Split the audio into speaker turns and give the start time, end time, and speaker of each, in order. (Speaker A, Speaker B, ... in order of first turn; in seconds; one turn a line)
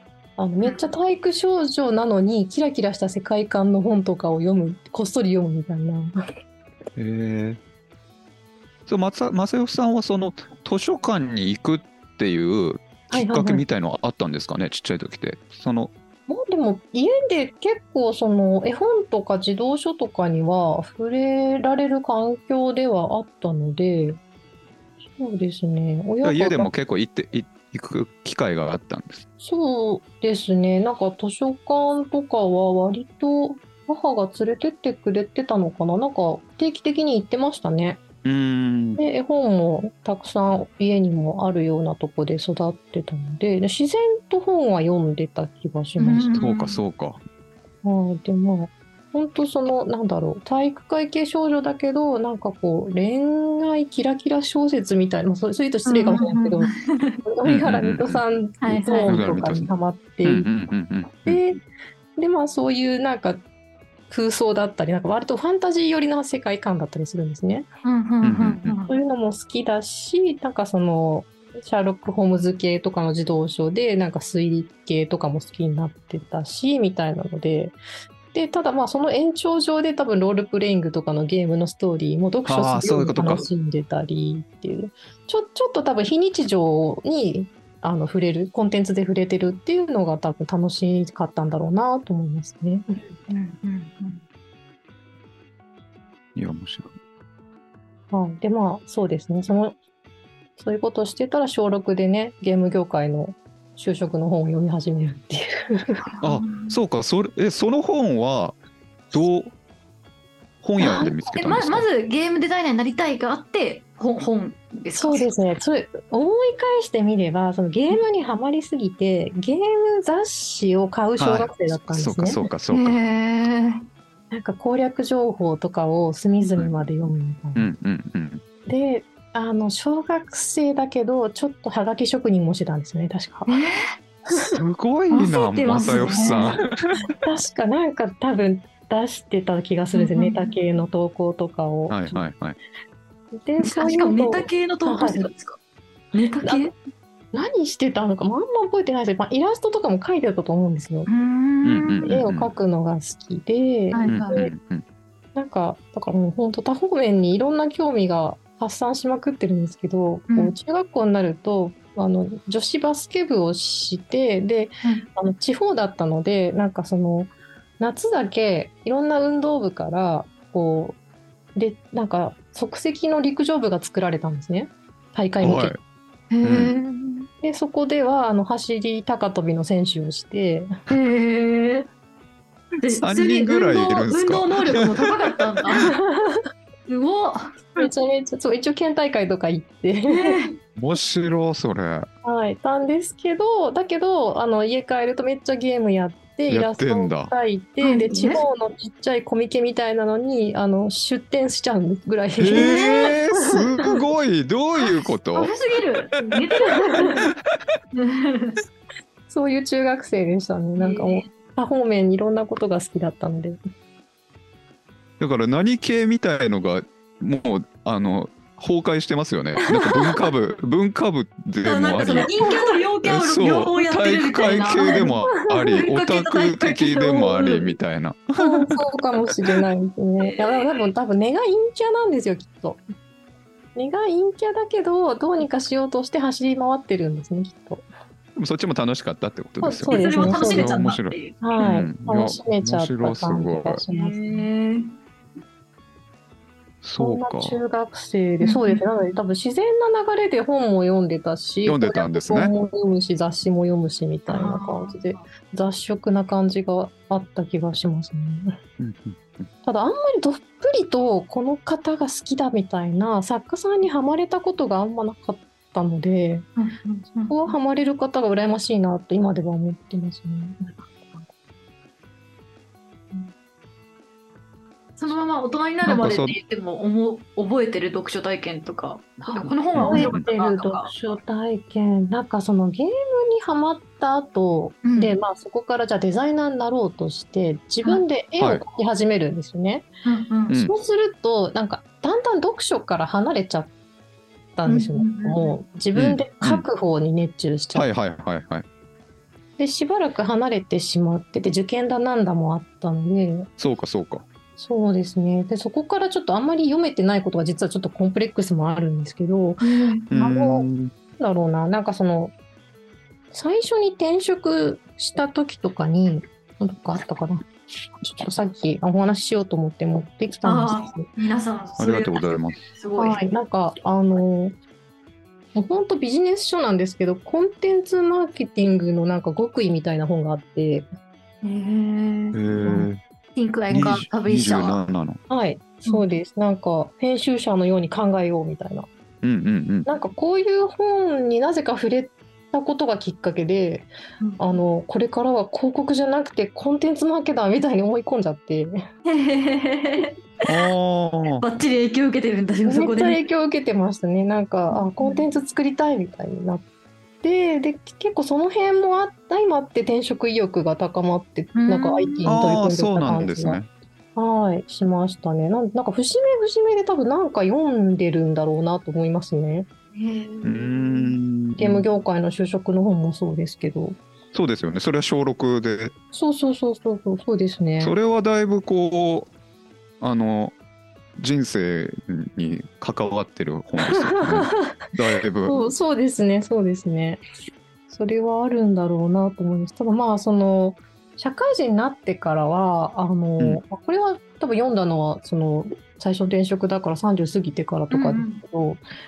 Speaker A: 0.4-6.1
Speaker B: 0.6-0.9
Speaker C: 7.0-7.6
Speaker C: 8.9-15.9
Speaker A: 13.1-13.6
Speaker A: 16.3-24.2
Speaker A: 25.2-26.7
Speaker C: 26.2-29.2
Speaker A: 29.4-38.0
Speaker C: 38.2-39.0
Speaker A: 39.0-46.4
Speaker B: 46.0-46.8
Speaker C: 46.4-47.2
Speaker A: 47.8-56.7
Speaker B: 55.9-57.2
Speaker A: 57.2-60.5
Speaker C: 57.5-58.2
Speaker B: 58.6-59.2
Speaker C: 59.1-59.7
Speaker C: 60.2-61.4
Speaker A: 61.3-61.6
Speaker A: 62.2-63.4
Speaker A: 64.1-67.7
Speaker B: 67.8-69.0
Speaker C: 68.2-68.8
Speaker A: 68.9-77.8
Speaker A: 78.3-92.8
Speaker C: 82.5-83.5
Speaker B: 93.3-94.2
Speaker C: 96.4-96.9
Speaker A: 98.1-99.8
Speaker A: 100.6-106.0
Speaker B: 106.1-106.8
Speaker C: 106.2-108.6
Speaker C: 109.1-109.5
Speaker C: 110.6-111.9
Speaker B: 110.8-115.3
Speaker A: 115.0-122.4
Speaker C: 121.2-123.0
Speaker B: 122.7-123.8
Speaker A: 124.3-127.7
Speaker C: 127.5-128.4
Speaker A: 128.7-133.6
Speaker B: 133.5-133.9
Speaker A: 134.3-134.6
Speaker C: 134.4-137.0
Speaker B: 135.1-136.6
Speaker A: 135.8-136.6
Speaker A: 137.2-142.2
Speaker B: 139.9-140.5
Speaker C: 141.9-142.6
Speaker A: 143.4-145.3
Speaker B: 143.6-145.6
Speaker B: 146.1-146.7
Speaker A: 146.4-146.7
Speaker A: 147.3-151.1
Speaker B: 151.1-152.1
Speaker C: 151.6-152.5
Speaker A: 152.0-154.5
Speaker B: 153.9-154.4
Speaker C: 154.1-154.8
Speaker A: 155.3-171.0
Speaker B: 160.3-160.6
Speaker A: 171.6-175.8
Speaker C: 175.4-175.8
Speaker B: 176.3-177.3
Speaker C: 176.4-176.7
Speaker A: 177.4-180.7
Speaker B: 180.9-181.9
Speaker B: 182.8-185.9
Speaker C: 183.0-184.9
Speaker A: 185.8-186.4
Speaker B: 186.9-187.9
Speaker A: 187.8-190.4
Speaker B: 190.1-190.6
Speaker C: 190.8-192.1
Speaker A: 192.2-203.7
Speaker C: 196.5-197.3
Speaker B: 197.8-198.5
Speaker C: 202.4-205.5
Speaker B: 202.6-203.2
Speaker B: 204.8-207.3
Speaker B: 207.9-208.6
Speaker A: 209.3-213.6
Speaker B: 210.8-211.3
Speaker C: 215.2-222.3
Speaker B: 221.6-227.8
Speaker A: 222.1-222.8
Speaker C: 223.0-228.8
Speaker A: 224.8-225.8
Speaker A: 228.4-232.8
Speaker B: 230.2-230.6
Speaker A: 233.8-237.8
Speaker C: 238.4-243.8
Speaker A: 239.6-240.9
Speaker B: 239.9-241.4
Speaker A: 241.4-244.5
Speaker B: 243.9-244.9
Speaker C: 246.8-247.6
Speaker A: 247.0-258.5
Speaker B: 248.4-248.8
Speaker C: 251.7-252.5
Speaker B: 254.3-255.2
Speaker C: 258.8-259.5
Speaker A: 259.6-266.5
Speaker B: 266.6-267.5
Speaker A: 267.3-271.3
Speaker B: 275.0-280.9
Speaker C: 275.9-276.4
Speaker A: 279.3-289.9
Speaker C: 279.7-280.3
Speaker B: 284.8-285.2
Speaker B: 290.1-290.5
Speaker A: 290.6-293.7
Speaker A: 294.6-297.9
Speaker B: 294.7-295.5
Speaker C: 295.9-296.7
Speaker C: 297.8-298.6
Speaker A: 299.6-303.5
Speaker C: 303.6-304.3
Speaker A: 304.6-310.7
Speaker B: 309.6-310.1
Speaker C: 310.1-310.9
Speaker A: 311.2-312.3
Speaker A: 313.3-317.5
Speaker A: 318.0-321.1
Speaker B: 320.4-323.2
Speaker C: 321.8-322.6
Speaker A: 323.0-324.6
Speaker A: 325.6-330.9
Speaker B: 331.4-332.4
Speaker C: 332.3-333.0
Speaker B: 333.4-334.8
Speaker C: 333.7-335.2
Speaker A: 335.3-338.9
Speaker C: 339.2-339.9
Speaker A: 339.9-348.8
Speaker B: 349.1-350.7
Speaker C: 350.4-351.4
Speaker B: 351.4-353.2
Speaker A: 352.7-356.6
Speaker B: 354.7-355.2
Speaker A: 357.2-363.6
Speaker B: 361.6-362.4
Speaker C: 362.3-363.7
Speaker A: 364.2-369.7
Speaker B: 369.9-371.2
Speaker C: 370.4-371.9
Speaker A: 371.6-374.0
Speaker C: 374.3-375.9
Speaker A: 376.1-377.9
Speaker C: 377.8-379.3
Speaker C: 380.0-380.6
Speaker C: 381.2-385.6
Speaker A: 384.0-384.5
Speaker A: 385.5-387.2
Speaker A: 387.9-398.8
Speaker B: 397.9-398.4